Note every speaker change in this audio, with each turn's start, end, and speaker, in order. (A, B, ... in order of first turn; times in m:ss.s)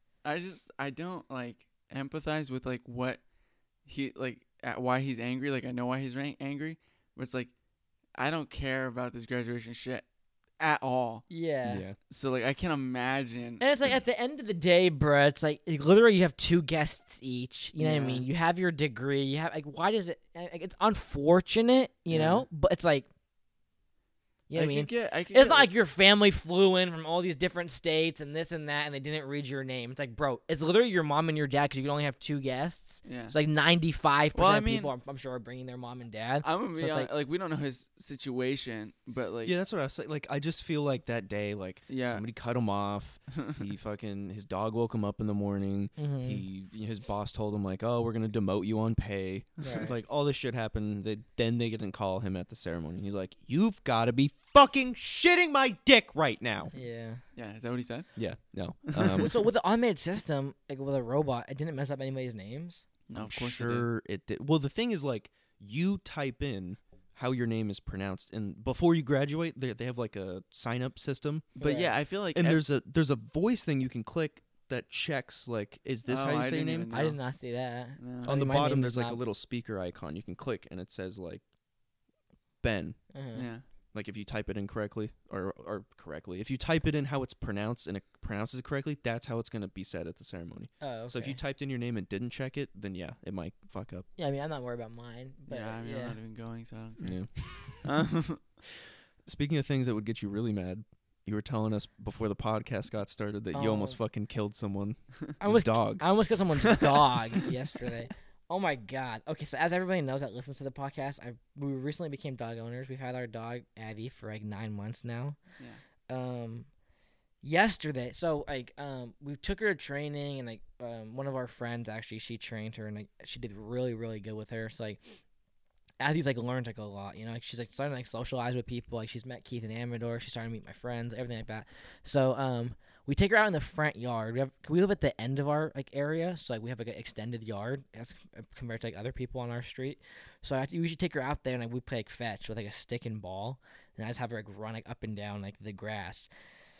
0:00.2-0:03.2 A
0:03.9-0:07.5 A
0:08.2-0:10.0 A
0:10.6-0:11.3 A
0:11.3-0:11.8 B
0:11.6-0:12.0 C
0:12.1-0:13.6 A
0:13.6-0:23.1 B
0:17.8-0:18.3 A
0:22.1-0:22.4 A
0:24.5-0:37.1 B
0:24.6-0:25.7 A
0:33.1-0:33.4 A
0:34.3-0:34.9 A
0:36.4-0:39.6 A
0:39.4-0:56.7 C
0:41.9-0:42.2 A
0:46.0-0:46.4 B
0:49.6-0:49.9 A
0:49.6-0:50.0 B
0:56.7-0:57.2 B
0:57.4-0:58.1 A
0:58.2-0:59.3 C
0:58.9-0:59.3 A
0:59.2-1:02.8 B
1:03.1-1:03.9 A
1:03.2-1:11.5 C
1:11.6-1:12.6 A
1:11.6-1:11.9 B
1:12.3-1:16.9 C
1:16.1-1:17.2 A
1:16.9-1:19.2 B
1:18.0-1:18.4 A
1:18.2-1:21.4 C
1:22.6-1:23.0 C
1:23.1-1:23.5 B
1:23.3-1:23.6 A
1:23.9-1:34.1 C
1:30.8-1:31.4 B
1:34.2-1:36.2 B
1:35.5-1:37.2 A
1:37.0-1:37.9 C
1:37.8-1:38.4 A
1:39.2-1:46.0 C
1:43.5-1:44.0 B
1:45.4-1:55.4 B
1:46.7-1:47.4 A
1:56.1-1:56.7 B
1:57.4-2:05.0 B
2:06.0-2:26.3 B